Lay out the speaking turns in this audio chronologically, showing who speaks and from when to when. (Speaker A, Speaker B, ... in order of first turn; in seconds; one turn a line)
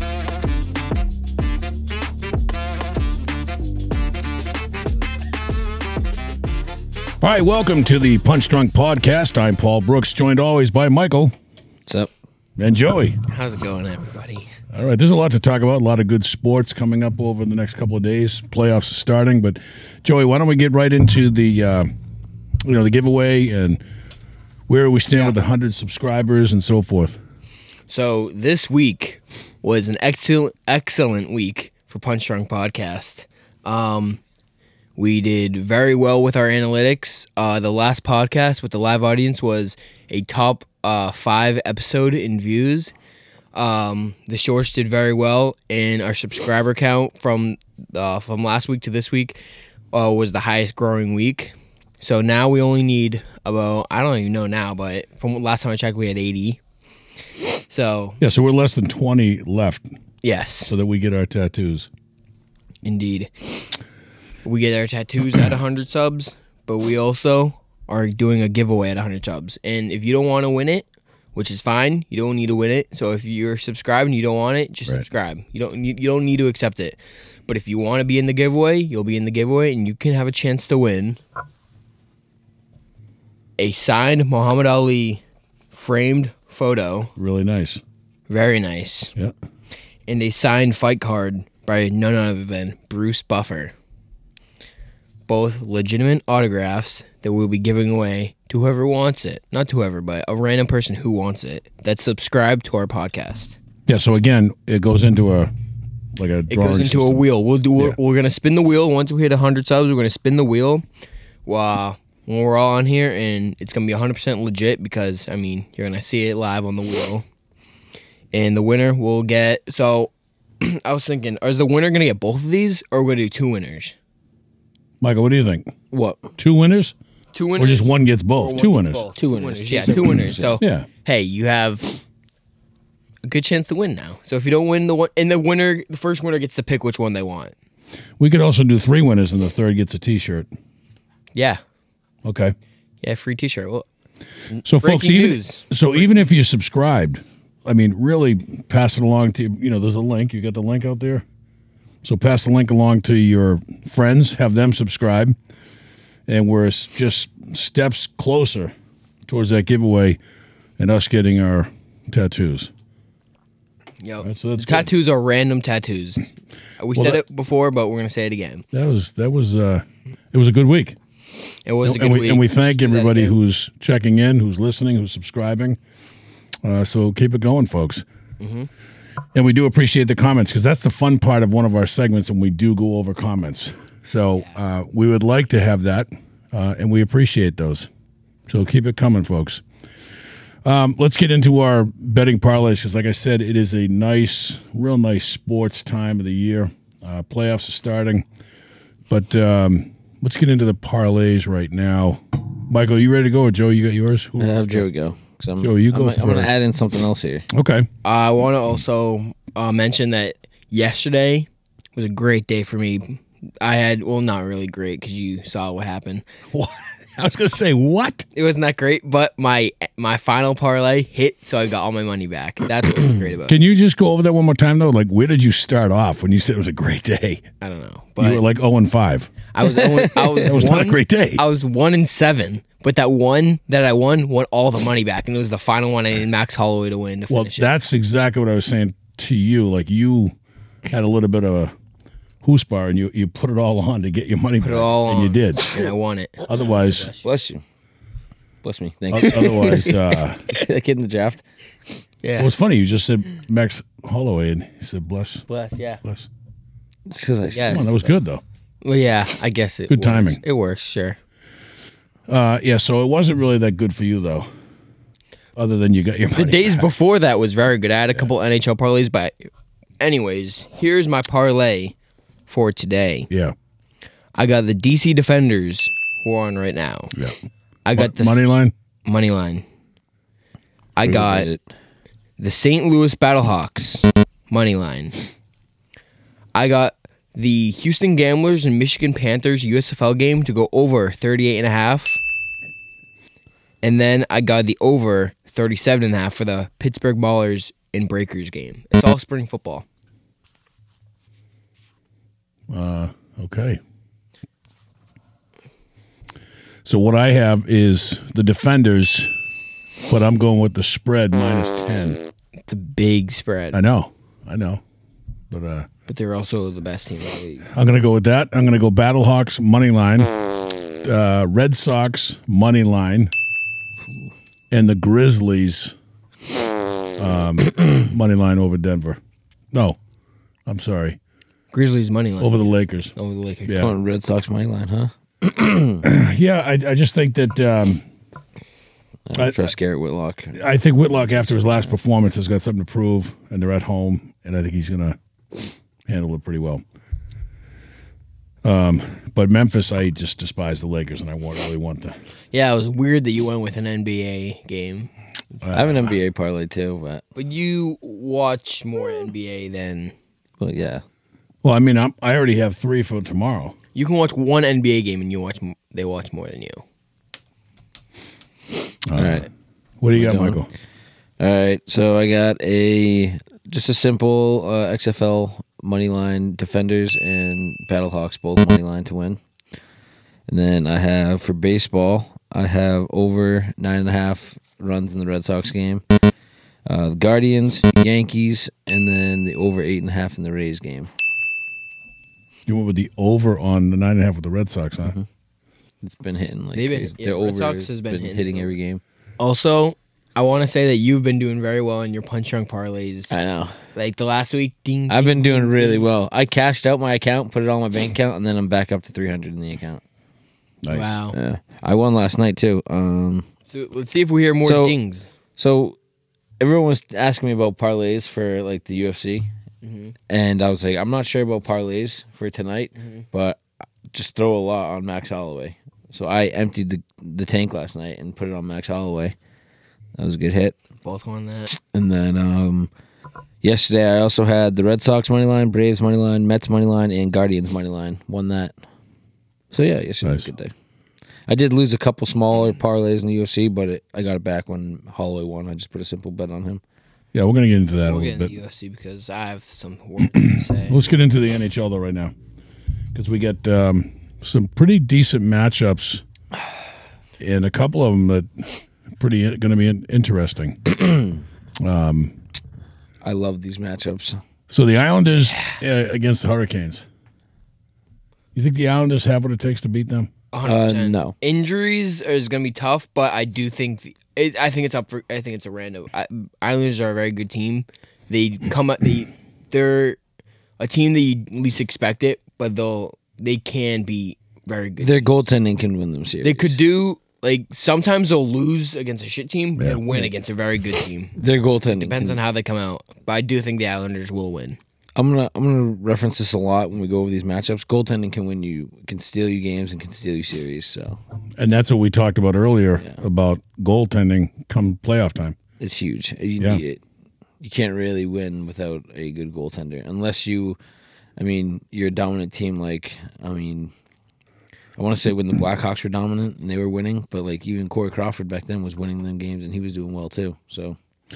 Speaker A: 7.2-11.3
Speaker A: 12.6-13.2
Speaker B: 13.3-14.5
Speaker A: 14.7-21.9
Speaker A: 22.6-23.8
Speaker A: 24.7-27.2
Speaker B: 27.9-34.2
Speaker B: 35.0-42.9
Speaker B: 43.5-49.4
Speaker B: 49.9-56.6
Speaker B: 57.7-58.2
Speaker A: 58.2-59.9
Speaker B: 60.2-60.7
Speaker A: 60.6-61.9
Speaker B: 62.8-63.6
Speaker B: 64.4-81.2
Speaker B: 83.6-87.1
Speaker A: 87.2-87.8
Speaker B: 88.3-89.1
Speaker B: 90.1-93.7
Speaker B: 95.3-103.6
Speaker A: 103.8-105.5
Speaker A: 106.1-107.2
Speaker B: 106.5-110.8
Speaker B: 111.5-117.2
Speaker B: 118.3-124.0
Speaker A: 125.0-125.7
Speaker C: 125.9-126.2
Speaker A: 126.4-126.9
Speaker B: 127.3-132.0
Speaker A: 127.5-129.1
Speaker C: 129.2-130.6
Speaker A: 130.6-130.9
Speaker B: 133.2-137.5
Speaker A: 138.2-140.5
Speaker B: 141.3-141.6
Speaker A: 142.2-142.5
Speaker B: 143.0-143.8
Speaker B: 144.5-145.7
Speaker A: 144.6-151.2
Speaker A: 152.0-155.4
Speaker A: 156.3-158.7
Speaker A: 159.3-160.2
Speaker A: 160.8-162.7
Speaker B: 164.0-168.6
Speaker A: 164.2-164.9
Speaker A: 166.9-167.2
Speaker A: 168.7-171.0
Speaker B: 171.7-173.3
Speaker A: 171.8-175.8
Speaker A: 176.6-178.0
Speaker B: 178.4-178.7
Speaker A: 179.3-187.9
Speaker A: 188.5-189.6
Speaker A: 190.6-198.2
Speaker A: 199.1-204.9
Speaker C: 204.4-207.5
Speaker A: 205.6-206.5
Speaker A: 207.5-207.9
Speaker B: 208.0-216.2
Speaker A: 216.5-218.2
Speaker B: 218.3-223.6
Speaker A: 223.5-227.4
Speaker B: 227.6-228.4
Speaker A: 228.2-229.3
Speaker B: 229.5-237.7
Speaker A: 230.4-231.4
Speaker A: 237.3-240.3
Speaker A: 240.9-241.7
Speaker A: 242.4-245.8
Speaker B: 244.6-247.2
Speaker A: 246.5-247.1
Speaker C: 247.2-247.6
Speaker C: 248.6-251.4
Speaker A: 249.1-250.4
Speaker B: 249.3-250.0
Speaker B: 252.2-252.5
Speaker A: 252.4-255.4
Speaker B: 255.5-256.0
Speaker A: 256.0-256.3
Speaker C: 257.1-258.1
Speaker B: 257.6-257.9
Speaker A: 257.6-258.4
Speaker B: 258.8-261.2
Speaker A: 259.9-260.4
Speaker A: 262.3-264.5
Speaker A: 265.6-266.9
Speaker B: 266.3-271.9
Speaker B: 272.5-273.3
Speaker A: 273.3-273.5
Speaker B: 274.3-277.1
Speaker B: 277.9-278.4
Speaker A: 278.0-278.7
Speaker B: 279.1-279.6
Speaker B: 280.9-281.5
Speaker C: 281.0-281.6
Speaker B: 282.4-285.2
Speaker B: 286.5-292.2
Speaker B: 293.8-299.8
Speaker A: 302.7-303.8
Speaker A: 306.8-309.3
Speaker A: 310.1-312.2
Speaker B: 312.7-313.8
Speaker A: 313.7-314.8
Speaker A: 315.5-315.9
Speaker B: 316.1-317.7
Speaker A: 317.7-320.3
Speaker A: 321.0-323.3
Speaker A: 324.7-325.9
Speaker A: 327.2-329.2
Speaker A: 329.7-330.0
Speaker A: 330.6-331.2
Speaker B: 331.7-333.9
Speaker A: 332.4-333.1
Speaker A: 333.6-333.9
Speaker C: 333.8-336.0
Speaker A: 336.0-338.0
Speaker C: 339.3-340.6
Speaker A: 339.3-339.7
Speaker A: 340.5-345.2
Speaker A: 346.1-346.8
Speaker A: 348.6-352.2
Speaker B: 352.5-355.1
Speaker A: 355.6-356.1
Speaker C: 355.7-357.2
Speaker B: 357.4-360.1
Speaker C: 360.6-361.0
Speaker A: 361.6-363.8
Speaker B: 363.9-366.8
Speaker A: 369.1-369.5
Speaker C: 369.1-369.5
Speaker A: 370.0-370.7
Speaker C: 370.1-370.6
Speaker C: 371.4-379.4
Speaker C: 380.5-386.0
Speaker C: 386.9-391.1
Speaker A: 392.6-395.1
Speaker C: 396.0-399.0
Speaker B: 396.7-398.7
Speaker B: 399.4-403.3
Speaker C: 403.3-403.8
Speaker B: 403.9-406.1
Speaker C: 405.1-410.0
Speaker A: 410.8-411.1
Speaker B: 410.9-411.4
Speaker C: 411.3-413.5
Speaker B: 413.7-415.3
Speaker C: 414.6-414.9
Speaker C: 415.6-415.9
Speaker C: 416.6-419.5
Speaker B: 419.8-420.1
Speaker C: 420.3-423.6
Speaker C: 424.1-429.3
Speaker C: 430.2-430.7
Speaker B: 431.0-431.7
Speaker C: 431.7-432.9
Speaker C: 433.6-438.8
Speaker C: 439.7-440.7
Speaker C: 441.5-446.8
Speaker A: 447.3-448.5
Speaker B: 448.0-451.0
Speaker A: 450.9-452.3
Speaker A: 453.1-456.2
Speaker A: 457.4-461.0
Speaker A: 461.8-462.4
Speaker C: 463.2-464.4
Speaker A: 464.7-467.0
Speaker A: 468.5-470.3
Speaker B: 470.5-480.2
Speaker C: 470.6-471.3
Speaker B: 480.8-485.4
Speaker C: 485.0-486.8
Speaker B: 486.4-491.4
Speaker C: 491.4-492.4
Speaker B: 491.9-494.8
Speaker C: 495.1-501.2
Speaker A: 501.6-505.6
Speaker C: 505.8-507.0
Speaker C: 507.6-510.8
Speaker C: 511.4-513.9
Speaker C: 515.0-521.0